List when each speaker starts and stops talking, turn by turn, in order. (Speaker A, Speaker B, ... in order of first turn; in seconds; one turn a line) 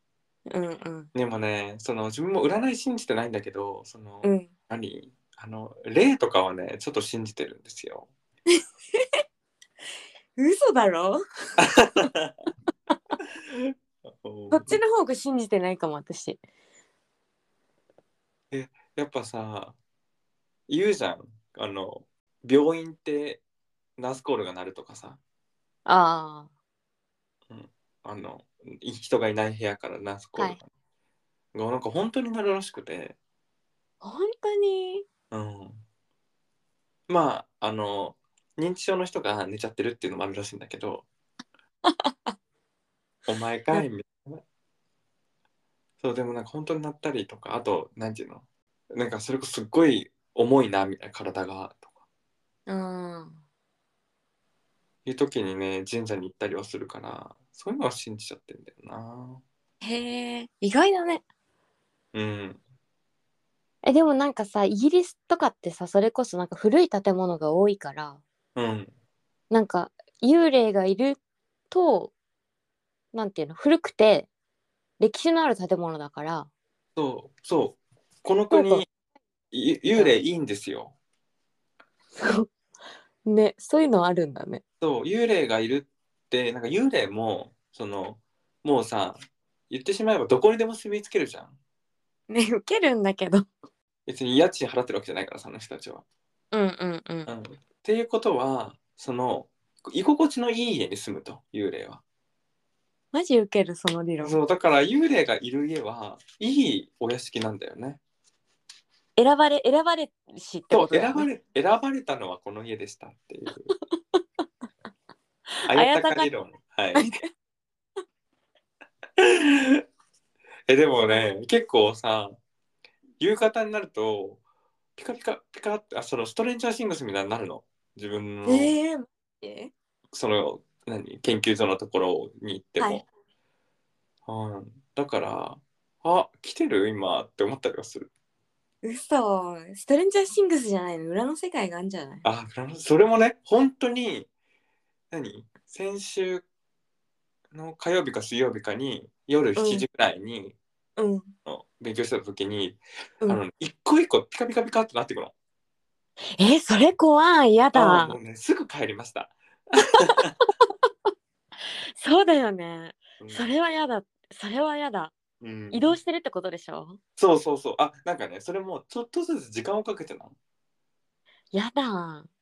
Speaker A: 0.5-1.1
Speaker B: 1.1-8.1
Speaker A: 4.2-4.5
Speaker A: 8.5-9.2
Speaker A: 10.4-11.6
Speaker B: 11.6-12.4
Speaker B: 13.4-14.8
Speaker A: 14.5-16.4
Speaker B: 18.5-19.8
Speaker B: 20.7-23.4
Speaker B: 24.0-25.2
Speaker A: 25.9-26.5
Speaker B: 27.5-30.6
Speaker B: 31.5-33.2
Speaker A: 34.0-35.0
Speaker B: 35.3-35.8
Speaker B: 37.1-41.0
Speaker A: 41.9-42.3
Speaker B: 43.3-44.4
Speaker B: 46.0-51.9
Speaker A: 52.7-53.4
Speaker B: 55.0-59.4
Speaker A: 59.8-61.2
Speaker B: 62.1-62.6
Speaker A: 63.8-68.2
Speaker B: 68.5-68.9
Speaker A: 69.5-71.2
Speaker A: 71.7-72.1
Speaker A: 73.1-74.3
Speaker A: 75.0-76.5
Speaker B: 77.0-78.9
Speaker A: 78.5-78.9
Speaker B: 79.5-80.9
Speaker A: 82.2-82.5
Speaker A: 83.2-84.6
Speaker B: 84.8-89.2
Speaker B: 89.7-91.6
Speaker A: 92.3-93.5
Speaker B: 94.1-96.0
Speaker A: 96.5-97.3
Speaker B: 97.3-102.0
Speaker A: 103.1-104.4
Speaker B: 104.2-108.0
Speaker A: 109.2-111.3
Speaker B: 110.7-113.7
Speaker A: 115.7-116.3
Speaker B: 115.7-117.1
Speaker A: 117.0-117.3
Speaker B: 119.2-119.8
Speaker B: 120.7-122.4
Speaker B: 123.2-124.4
Speaker B: 125.0-128.8
Speaker A: 128.4-129.7
Speaker B: 130.1-133.0
Speaker B: 134.3-138.1
Speaker A: 138.8-142.2
Speaker B: 142.2-144.3
Speaker B: 145.1-146.4
Speaker B: 147.5-150.6
Speaker A: 149.6-149.8
Speaker A: 151.0-151.3
Speaker B: 151.5-155.3
Speaker A: 156.4-158.2
Speaker B: 157.7-160.4
Speaker A: 162.0-165.1
Speaker B: 163.2-163.5
Speaker B: 165.4-166.0
Speaker A: 165.7-167.0
Speaker B: 167.2-170.3
Speaker A: 171.5-172.3